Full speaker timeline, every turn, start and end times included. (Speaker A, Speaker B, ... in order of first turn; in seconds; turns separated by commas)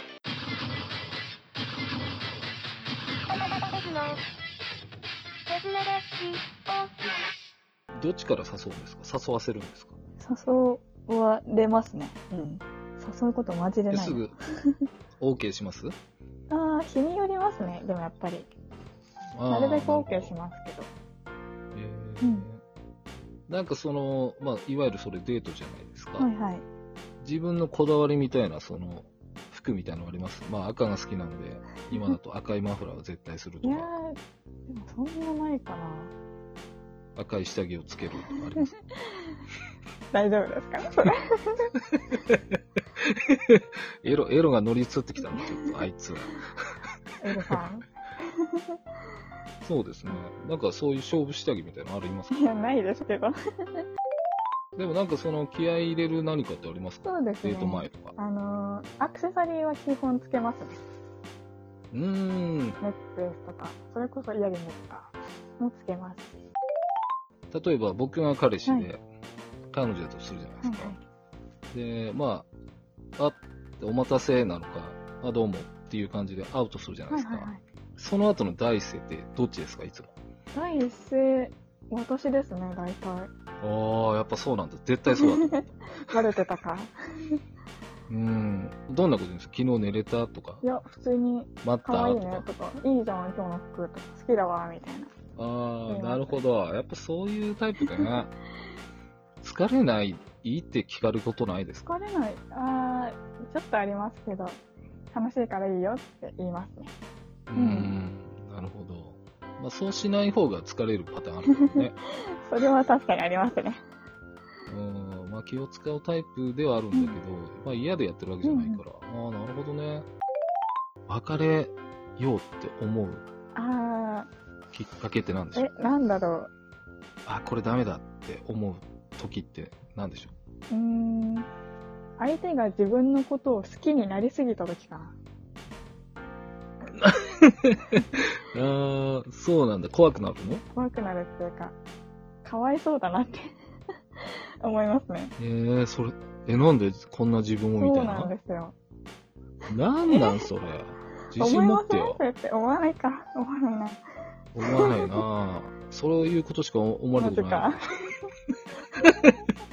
Speaker A: 7.9-9.9, Speaker B: 10.2-14.3, Speaker A: 13.9-14.3, Speaker A: 15.2-15.9, Speaker B: 16.5-18.5, Speaker A: 19.3-20.3, Speaker B: 19.4-20.9, Speaker A: 21.7-22.6, Speaker A: 23.5-26.3, Speaker B: 26.2-26.6, Speaker A: 27.2-33.9, Speaker B: 33.6-36.1, Speaker A: 37.1-38.8, Speaker B: 40.1-41.7, Speaker A: 42.0-46.6, Speaker B: 47.2-47.9, Speaker A: 49.6-52.3, Speaker B: 52.3-53.8, Speaker A: 54.8-58.1, Speaker B: 57.0-60.8, Speaker A: 61.9-62.8, Speaker B: 62.8-66.3, Speaker A: 67.5-69.0, Speaker A: 69.7-71.0, Speaker B: 70.6-71.0, Speaker A: 71.7-72.5, Speaker A: 73.2-80.1, Speaker B: 77.1-77.6, Speaker B: 80.5-83.3, Speaker A: 83.6-86.2, Speaker B: 85.2-86.9, Speaker A: 88.1-90.6, Speaker B: 90.6-95.1, Speaker A: 91.6-92.5, Speaker A: 95.3-98.3, Speaker B: 95.9-96.4, Speaker A: 99.4-101.9, Speaker B: 101.8-104.6, Speaker B: 105.1-106.9, Speaker A: 107.5-111.9, Speaker B: 107.5-107.9, Speaker B: 112.4-113.8, Speaker A: 114.7-120.1, Speaker B: 116.9-117.2, Speaker B: 118.4-118.8, Speaker A: 121.1-123.2, Speaker B: 123.5-124.3, Speaker A: 124.7-125.7, Speaker B: 125.5-126.5, Speaker A: 127.2-130.3, Speaker B: 130.7-131.5, Speaker B: 132.2-135.2, Speaker A: 136.9-140.6, Speaker B: 140.7-141.7, Speaker B: 142.4-143.5, Speaker B: 144.6-145.3, Speaker A: 145.4-148.3, Speaker B: 147.8-148.7, Speaker A: 149.7-152.2, Speaker B: 150.1-150.4, Speaker B: 151.4-154.0, Speaker A: 154.6-157.8, Speaker B: 154.7-155.2, Speaker B: 157.1-157.8, Speaker A: 159.0-159.3